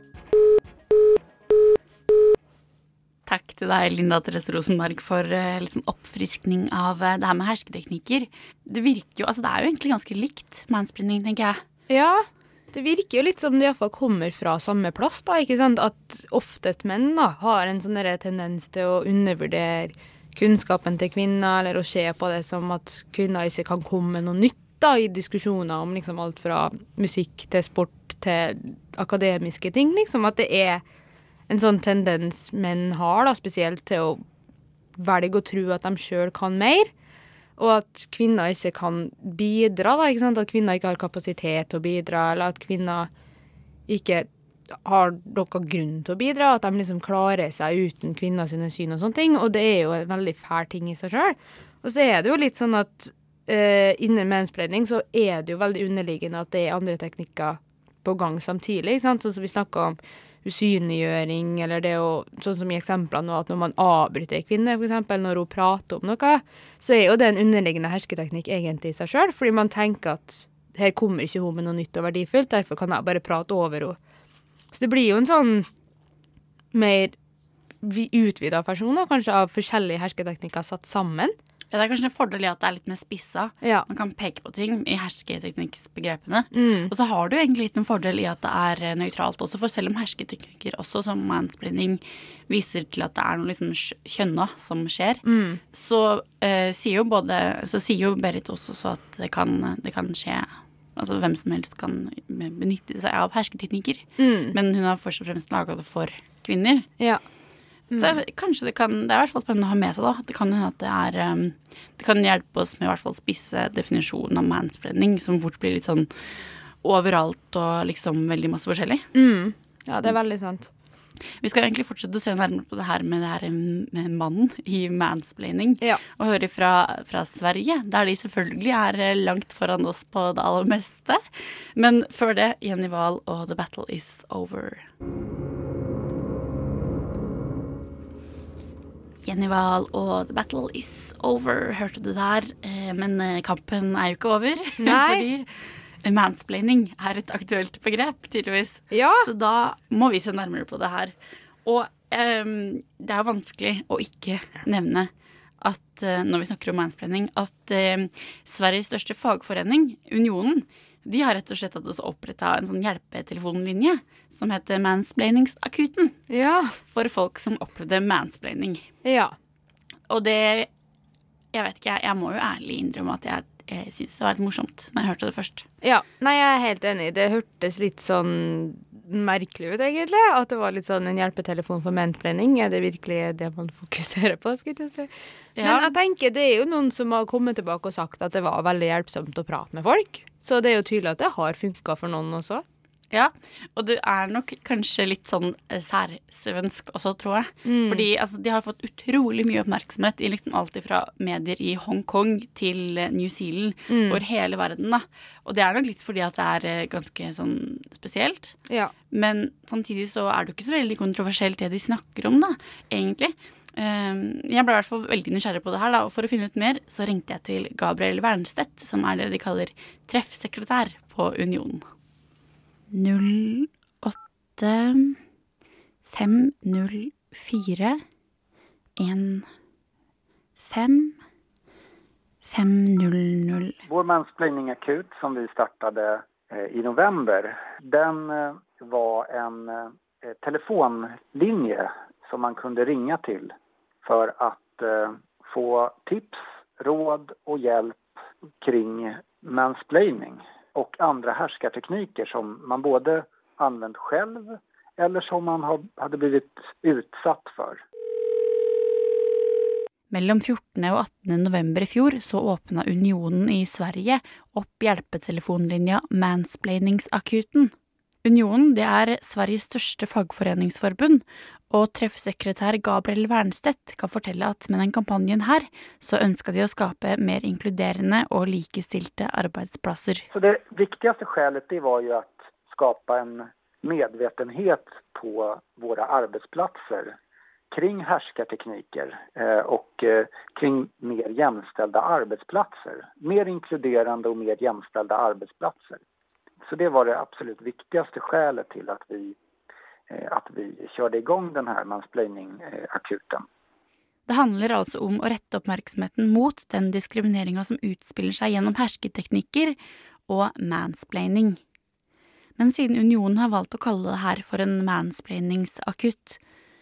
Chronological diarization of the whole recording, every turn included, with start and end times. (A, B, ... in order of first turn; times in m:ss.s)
0:03.2-0:11.6 A
0:11.9-0:30.8 B
0:31.5-0:34.2 B
0:35.0-0:36.9 B
0:37.6-0:43.1 B
0:43.9-1:14.0 B
1:14.7-1:15.7 B
1:16.7-1:17.1 B
1:17.8-1:21.4 B
1:21.7-1:46.9 A
1:26.5-1:26.9 B
1:35.2-1:35.6 B
1:44.2-1:44.6 B
1:47.9-1:48.2 B
1:48.0-1:56.1 A
1:56.8-1:59.0 A
1:59.1-2:00.7 B
2:01.4-2:11.2 A
2:11.7-2:14.9 A
2:19.2-2:35.1 A
2:24.8-2:25.2 B
2:28.9-2:29.3 B
2:35.6-2:46.2 A
2:46.3-2:46.8 B
2:46.9-2:48.8 A
2:49.0-2:49.3 B
2:50.1-2:50.7 A
2:51.5-2:55.6 A
2:55.8-3:12.6 B
3:05.6-3:05.9 A
3:13.1-3:28.6 A
3:17.6-3:18.0 B
3:23.9-3:24.2 B
3:29.1-3:41.8 A
3:42.9-3:45.2 A
3:46.1-3:48.0 A
3:49.0-3:49.5 A
3:50.6-3:51.2 A
3:52.4-3:53.8 A
3:53.8-4:08.0 C
4:08.6-4:17.8 C
4:20.1-4:27.7 A
4:28.2-4:40.2 A
4:40.3-4:47.2 C
4:47.7-4:56.0 C
4:56.7-4:59.4 C
5:00.1-5:03.4 C
5:04.3-5:09.8 A
5:10.3-5:11.6 A
5:12.6-5:16.4 A